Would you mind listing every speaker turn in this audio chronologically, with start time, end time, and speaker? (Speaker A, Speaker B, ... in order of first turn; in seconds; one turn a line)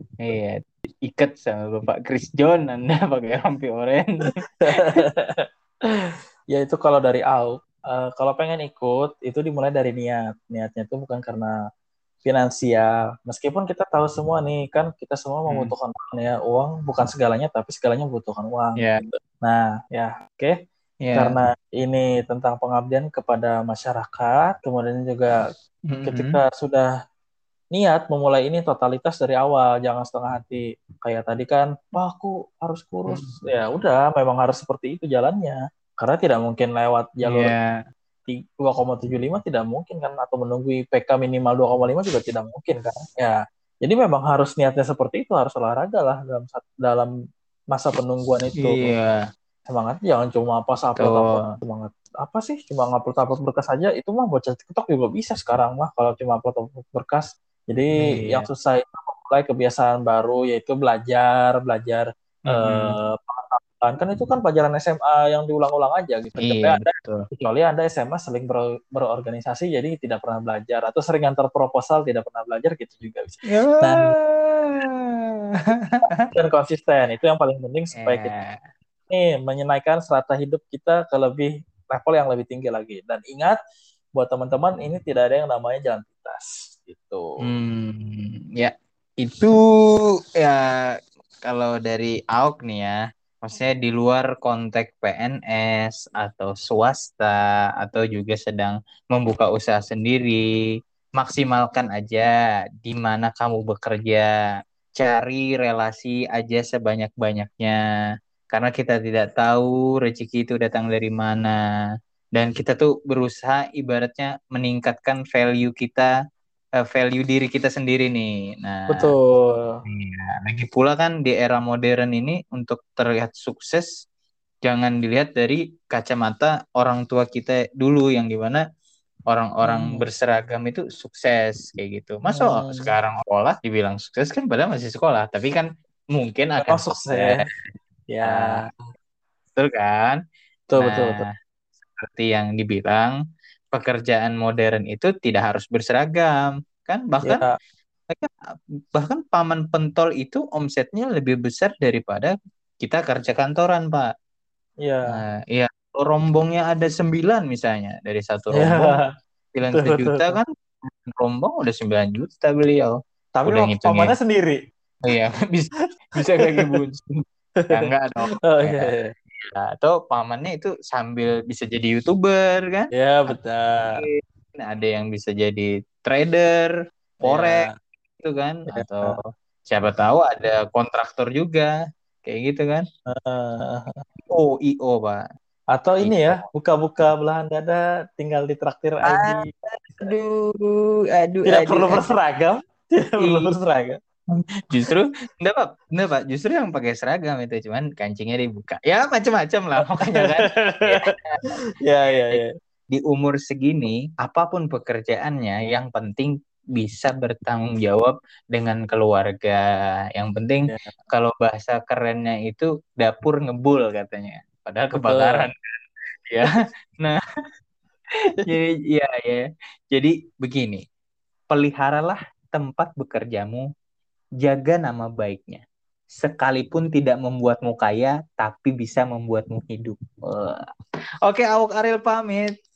Speaker A: 0.2-5.0
Speaker B: 4.6-11.5
Speaker B: 12.2-20.6
Speaker A: 21.0-21.4
Speaker B: 21.2-25.5
Speaker A: 25.9-26.4
Speaker B: 26.1-26.9
Speaker B: 27.7-37.5
Speaker A: 33.1-33.3
Speaker A: 37.2-37.7
Speaker B: 38.3-47.1
Speaker B: 47.7-48.9
Speaker A: 48.6-49.2
Speaker B: 49.7-74.1
Speaker A: 51.0-51.5
Speaker A: 58.0-58.5
Speaker A: 62.5-63.0
Speaker A: 66.4-67.3
Speaker A: 73.5-76.3
Speaker B: 76.3-78.3
Speaker A: 78.0-78.6
Speaker B: 79.1-83.6
Speaker B: 84.2-87.2
Speaker A: 87.4-100.4
Speaker A: 101.2-104.3
Speaker A: 105.0-107.8
Speaker A: 108.5-111.6
Speaker A: 112.3-116.1
Speaker A: 116.8-119.1
Speaker B: 118.9-119.8
Speaker A: 119.9-123.9
Speaker A: 124.6-128.6
Speaker A: 129.3-137.5
Speaker B: 129.6-130.1
Speaker B: 132.3-132.9
Speaker B: 136.6-137.4
Speaker B: 138.1-138.8
Speaker A: 138.2-138.6
Speaker A: 139.6-140.2
Speaker B: 140.7-141.3
Speaker A: 140.8-141.3
Speaker A: 142.0-143.2
Speaker A: 143.7-147.4
Speaker B: 147.2-147.5
Speaker A: 148.9-154.1
Speaker B: 154.8-155.2
Speaker A: 155.1-159.0
Speaker B: 158.5-159.1
Speaker A: 159.5-164.2
Speaker B: 159.8-160.4
Speaker B: 163.4-164.6
Speaker A: 165.1-173.4
Speaker B: 167.6-167.9
Speaker B: 168.4-169.1
Speaker B: 172.9-174.0
Speaker A: 174.0-181.7
Speaker B: 177.2-177.8
Speaker B: 178.7-179.2
Speaker A: 182.2-182.8
Speaker B: 183.1-184.0
Speaker A: 184.3-185.2
Speaker B: 185.7-190.1
Speaker A: 186.0-186.5
Speaker A: 189.1-192.1
Speaker B: 191.5-194.0
Speaker A: 193.2-193.5
Speaker A: 194.4-201.5
Speaker B: 200.0-201.1
Speaker B: 201.8-202.5
Speaker A: 202.3-209.6
Speaker A: 210.2-215.7
Speaker B: 214.9-215.5
Speaker A: 216.3-217.2
Speaker A: 218.4-220.8
Speaker A: 221.5-223.7
Speaker A: 224.4-225.6
Speaker A: 226.2-230.6
Speaker A: 231.2-232.5